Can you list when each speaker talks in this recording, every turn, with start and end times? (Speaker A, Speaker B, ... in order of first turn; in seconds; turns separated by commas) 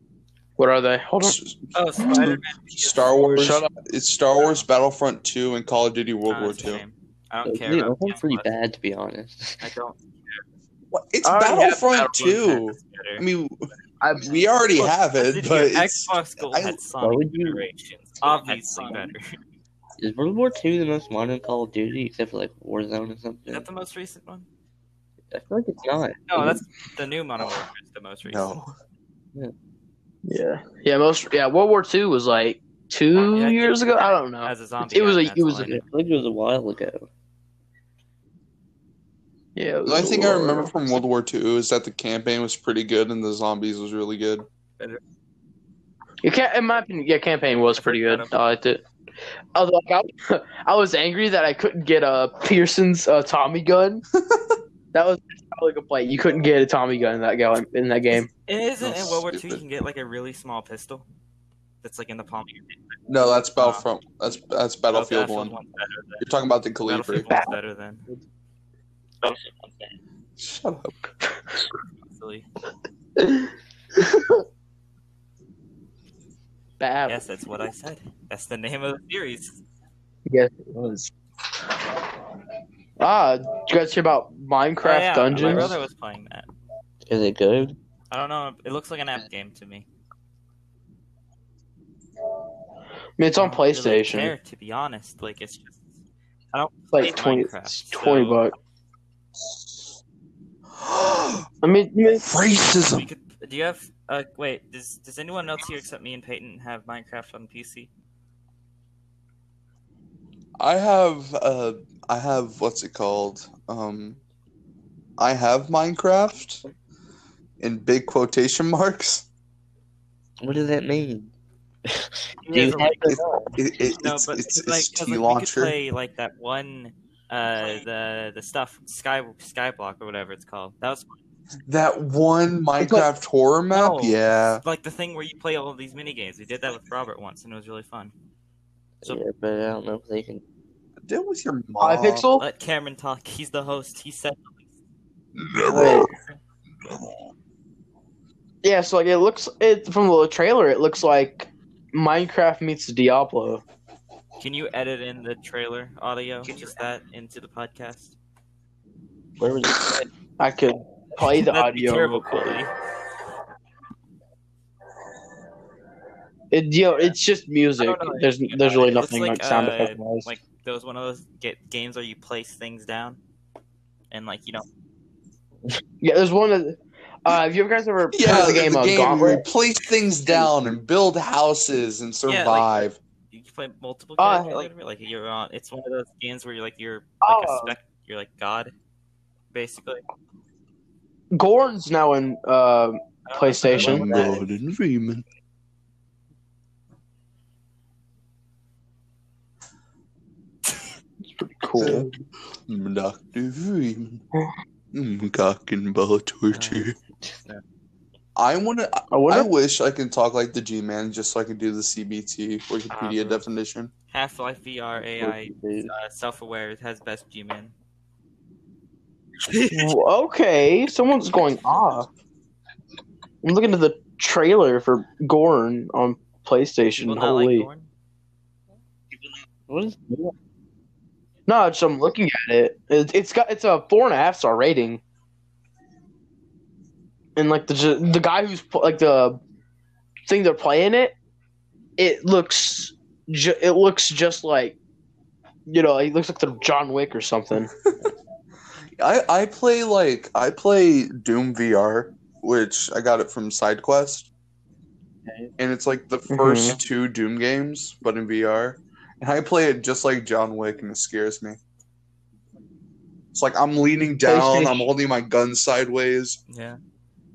Speaker A: 0.6-1.4, Speaker B: 1.2-6.8, Speaker C: 1.7-3.5, Speaker A: 3.4-3.7, Speaker C: 4.4-4.6, Speaker C: 6.3-8.5, Speaker D: 7.5-9.7, Speaker C: 9.6-10.4, Speaker B: 10.9-13.7, Speaker A: 11.2-12.3, Speaker C: 12.1-13.2, Speaker A: 14.0-14.4, Speaker B: 14.2-16.8, Speaker C: 14.8-19.4, Speaker D: 17.0-17.7, Speaker D: 18.5-19.1, Speaker D: 20.0-23.7, Speaker C: 23.5-24.5, Speaker D: 25.3-26.6, Speaker C: 26.3-28.6, Speaker B: 28.3-28.8, Speaker A: 30.3-35.7, Speaker C: 33.3-35.8, Speaker D: 35.6-37.1, Speaker A: 39.6-40.7, Speaker B: 39.9-44.5, Speaker A: 46.2-48.8, Speaker C: 47.8-48.3, Speaker A: 49.5-54.0, Speaker B: 54.2-54.6, Speaker A: 54.9-58.3, Speaker C: 58.5-61.1, Speaker B: 58.8-59.6, Speaker C: 61.8-63.9, Speaker B: 63.1-65.6, Speaker C: 64.9-66.3, Speaker B: 66.2-67.3, Speaker C: 66.8-68.0, Speaker B: 70.4-71.0, Speaker C: 72.1-72.5, Speaker A: 73.2-74.4, Speaker A: 76.8-77.2, Speaker C: 77.1-79.6, Speaker A: 80.3-81.1, Speaker A: 83.0-85.7, Speaker C: 84.8-86.5, Speaker D: 85.3-85.8, Speaker D: 87.1-87.8, Speaker C: 88.1-89.9, Speaker A: 93.2-94.3, Speaker C: 93.4-95.8, Speaker C: 96.5-98.4, Speaker A: 96.9-98.5, Speaker B: 100.8-101.5, Speaker A: 101.6-102.2, Speaker B: 102.2-103.1, Speaker C: 102.9-107.9, Speaker B: 110.6-114.2, Speaker B: 115.2-116.6, Speaker B: 117.6-119.3, Speaker D: 120.4-121.3, Speaker D: 121.8-123.6, Speaker C: 122.5-123.2, Speaker B: 123.1-125.8, Speaker C: 124.0-131.2, Speaker B: 131.7-134.6, Speaker A: 132.8-133.1, Speaker C: 133.7-138.1, Speaker D: 139.0-140.4, Speaker B: 141.1-142.2, Speaker A: 141.8-142.4, Speaker C: 142.4-144.6, Speaker B: 145.4-146.1, Speaker A: 145.7-146.1, Speaker C: 146.1-146.4, Speaker A: 148.6-153.6, Speaker C: 154.4-158.1, Speaker D: 159.4-160.1, Speaker A: 160.4-162.6, Speaker C: 161.2-162.7, Speaker A: 166.5-170.3, Speaker C: 167.8-173.2, Speaker C: 174.1-174.7, Speaker A: 176.0-179.4, Speaker B: 178.2-183.0, Speaker C: 182.3-188.7, Speaker A: 184.2-184.7, Speaker A: 187.2-187.8, Speaker C: 189.5-190.0, Speaker A: 191.3-194.4, Speaker C: 193.3-194.4, Speaker B: 193.8-195.2, Speaker A: 201.4-202.1, Speaker B: 201.8-204.2, Speaker B: 204.9-207.0, Speaker C: 206.5-206.9, Speaker B: 208.4-213.9, Speaker A: 209.1-209.5, Speaker C: 212.9-213.5, Speaker C: 214.1-217.7, Speaker D: 215.0-215.9, Speaker C: 219.5-219.9, Speaker A: 219.7-222.1, Speaker A: 223.4-227.7, Speaker C: 227.0-227.9, Speaker D: 229.7-230.3, Speaker A: 231.5-235.0, Speaker A: 237.4-239.4, Speaker A: 240.3-241.2, Speaker A: 242.0-244.8, Speaker A: 245.7-247.7, Speaker B: 249.0-254.3, Speaker B: 255.6-261.6, Speaker A: 256.3-256.8, Speaker B: 263.3-266.4, Speaker A: 264.2-264.9, Speaker C: 266.5-266.8